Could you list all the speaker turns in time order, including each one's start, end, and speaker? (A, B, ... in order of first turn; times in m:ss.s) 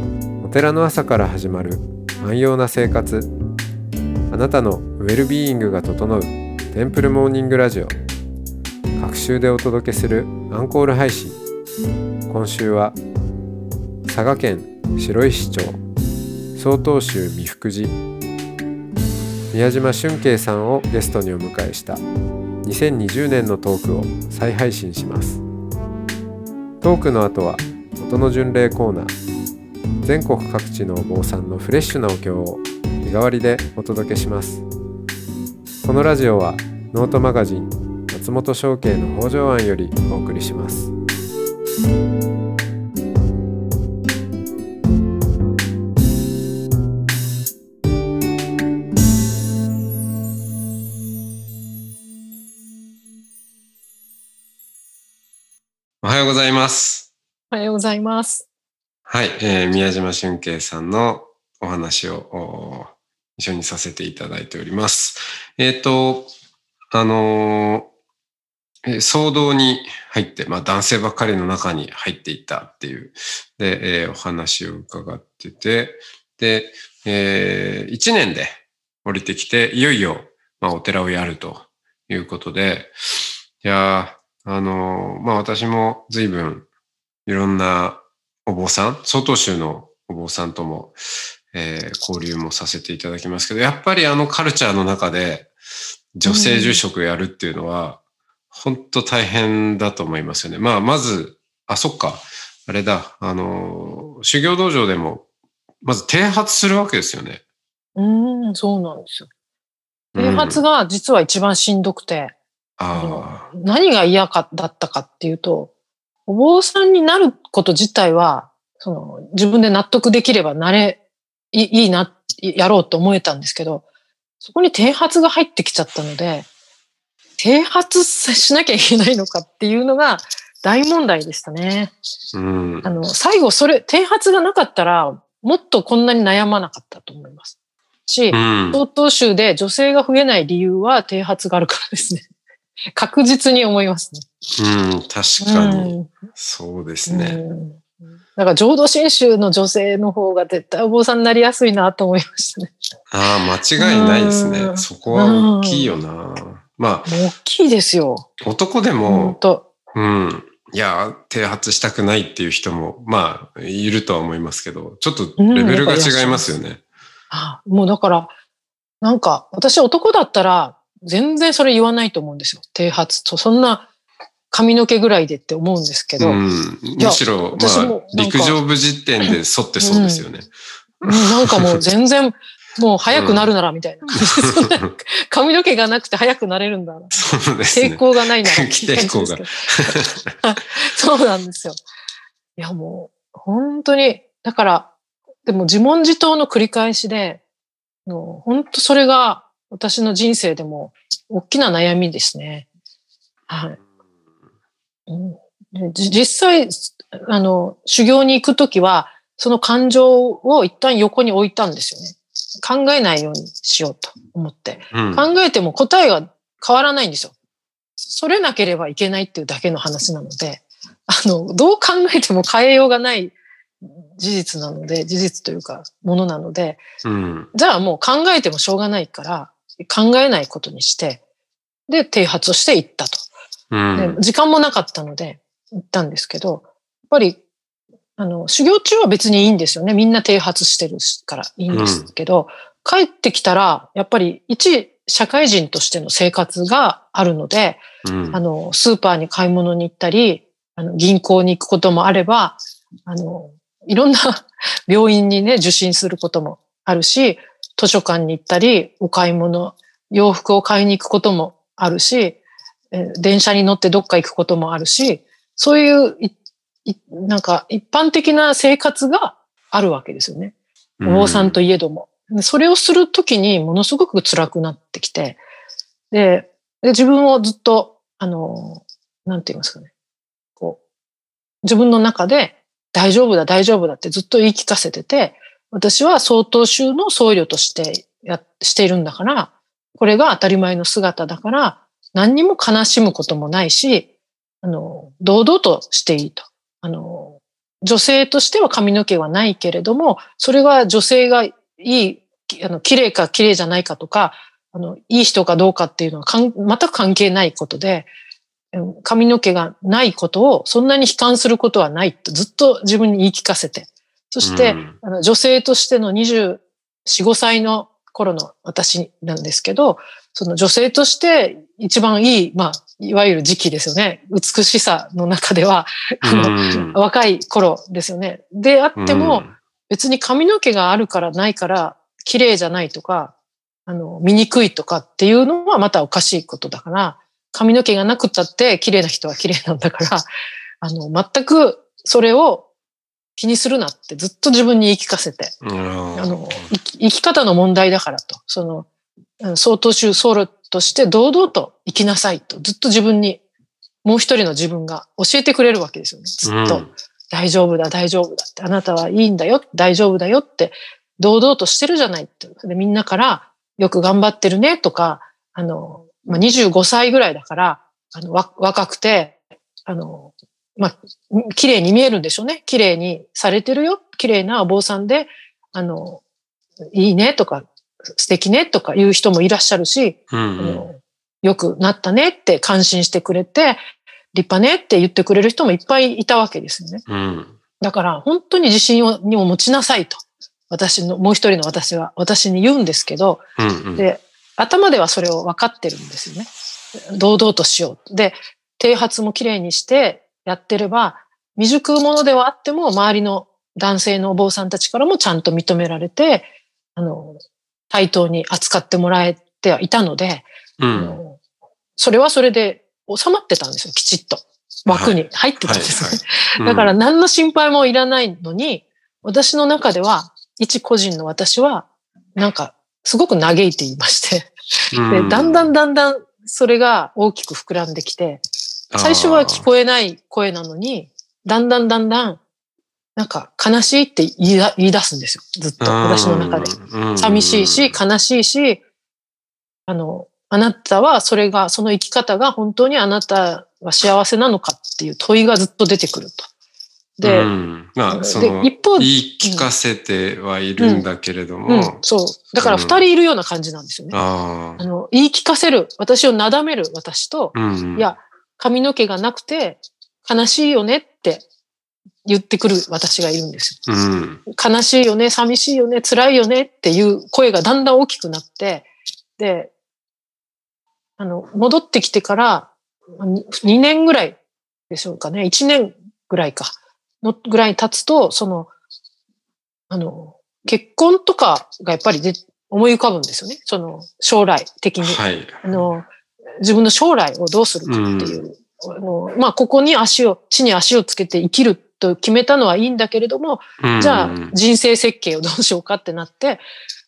0:00.4-0:03.3 A
0:04.3-0:08.0 A
0:09.0-0:11.4 A
0:12.3-0:13.0 A
0:14.0-0:15.8 A
0:16.5-0:18.0 A
0:19.5-0:22.0 A
0:22.6-0:25.4 A
0:26.8-0:29.1 A
0:30.0-0:34.6 A
0:35.8-0:40.9 A
0:56.0-0:57.1 A
0:57.5-0:58.4 B
0:59.0-1:06.3 A
1:06.9-1:07.9 A
1:08.8-1:22.9 A
1:23.6-1:26.6 A
1:27.2-1:31.0 A
1:31.5-1:35.5 A
1:36.2-1:38.0 A
1:36.2-1:36.8 B
1:38.5-1:45.2 A
1:45.8-1:47.4 A
1:48.0-1:49.3 B
1:50.1-1:50.6 A
1:50.2-1:52.3 B
1:52.8-1:53.5 A
1:52.9-1:55.7 B
1:56.3-2:01.0 B
2:01.5-2:03.8 B
2:04.4-2:06.4 B
2:07.4-2:11.9 B
2:12.3-2:12.9 A
2:12.8-2:17.5 B
2:18.1-2:22.2 B
2:18.3-2:18.8 A
2:22.9-2:24.3 B
2:24.6-2:27.4 A
2:25.4-2:26.1 B
2:27.1-2:32.7 B
2:33.1-2:37.1 A
2:33.8-2:36.0 B
2:37.0-2:38.3 B
2:38.4-2:39.4 A
2:39.0-2:39.6 B
2:39.9-2:46.8 A
2:45.4-2:46.5 B
2:47.3-2:48.3 B
2:49.0-2:53.9 B
2:54.5-2:56.4 B
2:56.2-3:00.5 A
2:57.0-2:58.6 B
2:59.3-3:00.2 B
3:01.0-3:01.8 A
3:01.0-3:11.8 B
3:03.1-3:03.5 A
3:04.1-3:04.9 A
3:07.1-3:10.3 A
3:12.6-3:14.9 B
3:15.4-3:17.4 B
3:18.0-3:22.6 B
3:23.5-3:23.8 B
3:25.1-3:37.3 B
3:34.9-3:35.3 A
3:38.0-3:46.8 B
3:47.0-3:47.5 A
3:47.5-3:51.2 B
3:51.9-3:53.2 B
3:53.7-3:54.2 A
3:53.9-3:57.4 B
3:58.2-4:22.4 B
4:01.7-4:02.1 A
4:08.0-4:08.4 A
4:22.9-4:30.5 B
4:31.0-4:31.6 A
4:31.0-4:35.4 B
4:36.1-4:39.9 B
4:41.6-4:54.1 B
4:54.6-5:08.1 B
5:08.7-5:33.3 B
5:14.4-5:15.0 A
5:26.2-5:26.9 A
5:29.0-5:29.5 A
5:33.8-5:40.3 B
5:40.8-5:42.7 B
5:43.4-5:45.6 B
5:45.6-5:46.7 A
5:46.1-5:48.9 B
5:49.4-5:53.4 B
5:54.0-6:16.2 B
5:56.4-5:56.9 A
6:16.9-6:23.8 B
6:20.3-6:20.8 A
6:24.3-6:27.0 B
6:27.1-6:27.6 A
6:27.8-6:33.4 B
6:33.6-6:34.0 A
6:34.0-6:36.5 B
6:37.1-6:51.4 B
6:50.8-6:51.2 A
6:52.0-7:08.4 B
6:54.9-6:56.9 A
7:04.9-7:05.7 A
7:08.9-7:09.6 A
7:09.0-7:12.4 B
7:13.2-7:18.8 B
7:15.8-7:18.0 A
7:19.9-7:26.5 B
7:27.2-7:27.5 B
7:27.2-7:32.0 A
7:28.1-7:29.7 B
7:30.8-7:31.0 B
7:31.6-7:34.2 B
7:32.6-7:33.0 A
7:34.1-7:34.8 A
7:34.8-7:41.4 B
7:37.5-7:38.1 A
7:42.2-7:43.8 B
7:43.8-7:44.4 A
7:44.5-7:49.7 B
7:51.2-7:54.4 B
7:54.9-7:58.7 B
7:59.9-8:16.6 B
8:05.0-8:05.7 A
8:07.8-8:08.4 A
8:13.8-8:14.5 A